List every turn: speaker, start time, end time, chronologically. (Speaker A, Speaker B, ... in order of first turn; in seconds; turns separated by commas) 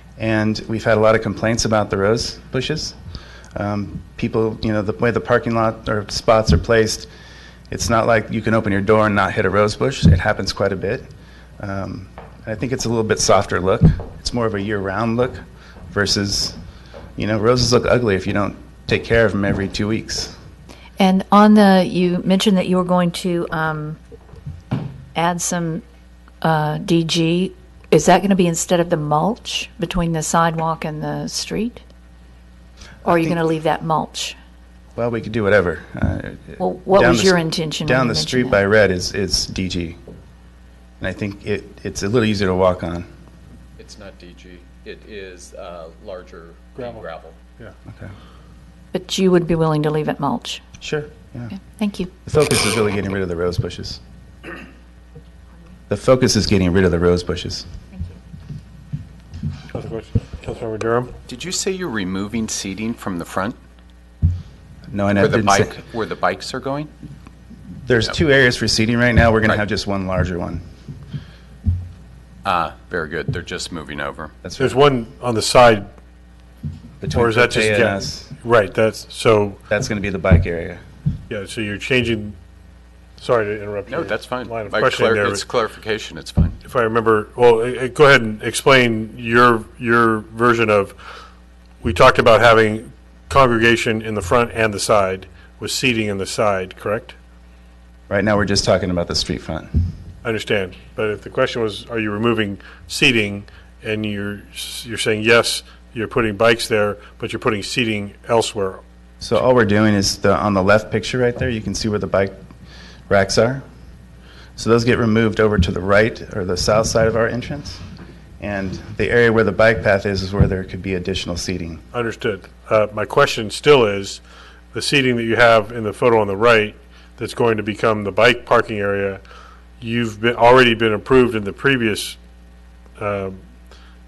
Speaker A: 0.2-2.9, Speaker A: 3.5-7.1, Speaker A: 7.7-11.1, Speaker A: 11.6-16.6, Speaker A: 17.2-20.3, Speaker B: 21.0-24.0, Speaker B: 25.1-25.8, Speaker B: 26.4-31.8, Speaker A: 33.0-33.4, Speaker B: 33.0-34.4, Speaker A: 35.0-40.0, Speaker B: 36.6-38.6, Speaker A: 41.0-43.1, Speaker C: 43.8-47.4, Speaker D: 46.7-47.1, Speaker B: 48.9-50.6, Speaker A: 50.8-51.5, Speaker B: 51.6-52.1, Speaker A: 52.2-54.0, Speaker A: 55.9-57.6, Speaker D: 59.7-61.1, Speaker C: 61.2-63.6, Speaker A: 64.9-65.8, Speaker C: 65.1-66.9, Speaker A: 67.8-70.6, Speaker C: 72.4-74.3, Speaker A: 74.4-74.7, Speaker D: 74.5-75.8, Speaker A: 77.0-78.3, Speaker D: 77.1-79.6, Speaker A: 79.7-80.8, Speaker D: 81.3-82.3, Speaker D: 83.2-85.4, Speaker C: 83.9-86.6, Speaker D: 86.6-91.0, Speaker D: 91.8-97.1, Speaker A: 98.1-99.9, Speaker D: 100.2-108.8, Speaker A: 109.2-112.3, Speaker A: 113.1-113.6, Speaker A: 114.6-117.8, Speaker A: 118.4-121.8, Speaker D: 121.9-124.2, Speaker D: 124.7-129.2, Speaker D: 129.8-132.2, Speaker D: 133.0-133.4